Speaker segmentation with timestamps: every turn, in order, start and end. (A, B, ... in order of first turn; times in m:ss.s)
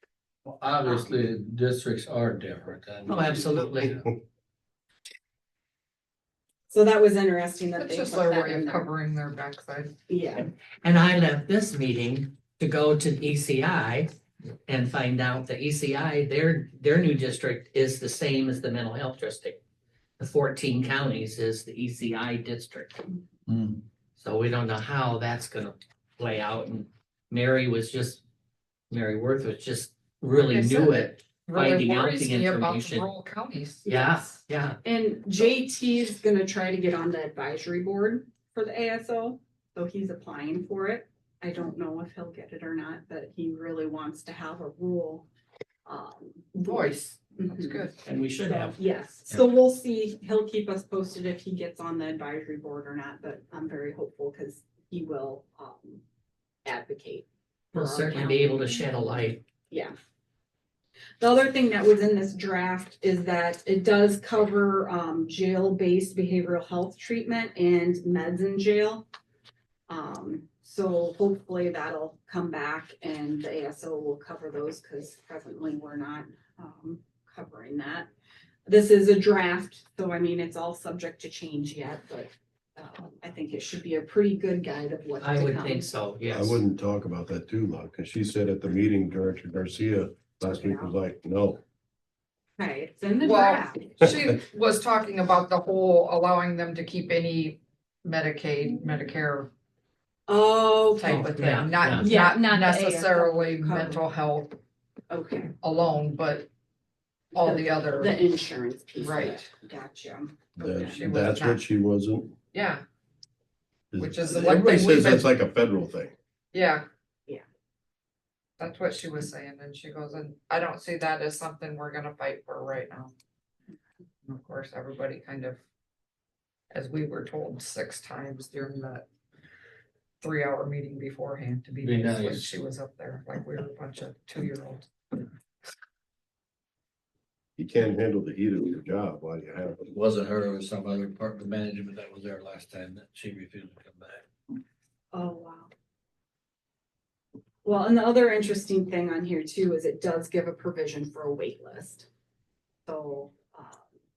0:00.4-0:04.0 A
0:00.8-0:01.1 B
0:03.1-0:04.0 C
0:06.7-0:08.9 B
0:07.8-0:09.9 D
0:10.1-0:10.5 B
0:10.8-0:14.1 C
0:14.7-0:19.6 C
0:20.2-0:23.0 C
0:23.5-0:23.8 A
0:24.2-0:28.2 C
0:28.9-0:33.1 C
0:30.3-0:33.8 D
0:33.8-0:34.8 C
0:33.9-0:45.3 B
0:45.8-0:47.8 B
0:46.5-0:48.0 D
0:48.0-0:48.8 C
0:48.4-0:56.0 B
0:56.6-0:58.8 B
0:57.7-0:59.4 C
1:01.2-1:09.0 B
1:09.9-1:18.1 B
1:18.6-1:25.8 B
1:25.2-1:26.6 C
1:26.3-1:31.6 E
1:30.4-1:30.9 B
1:32.6-1:34.0 B
1:33.2-1:39.5 D
1:40.3-1:41.3 B
1:41.0-1:44.6 D
1:41.0-1:42.1 C
1:41.9-1:44.0 B
1:45.1-1:45.5 B
1:45.6-1:46.5 D
1:47.3-1:48.2 D
1:47.4-1:51.0 B
1:49.0-1:49.5 D
1:50.6-1:52.3 E
1:50.8-1:51.6 D
1:52.5-1:52.8 D
1:53.9-1:56.1 E
1:54.0-1:55.2 D
1:56.5-1:56.8 D
1:58.6-2:03.1 D
2:04.2-2:05.6 D
2:06.7-2:09.0 D
2:10.2-2:15.3 D
2:11.8-2:12.6 A
2:17.6-2:19.9 E
2:19.9-2:24.2 A
2:25.1-2:25.7 B
2:27.6-2:32.1 B
2:32.8-2:33.8 B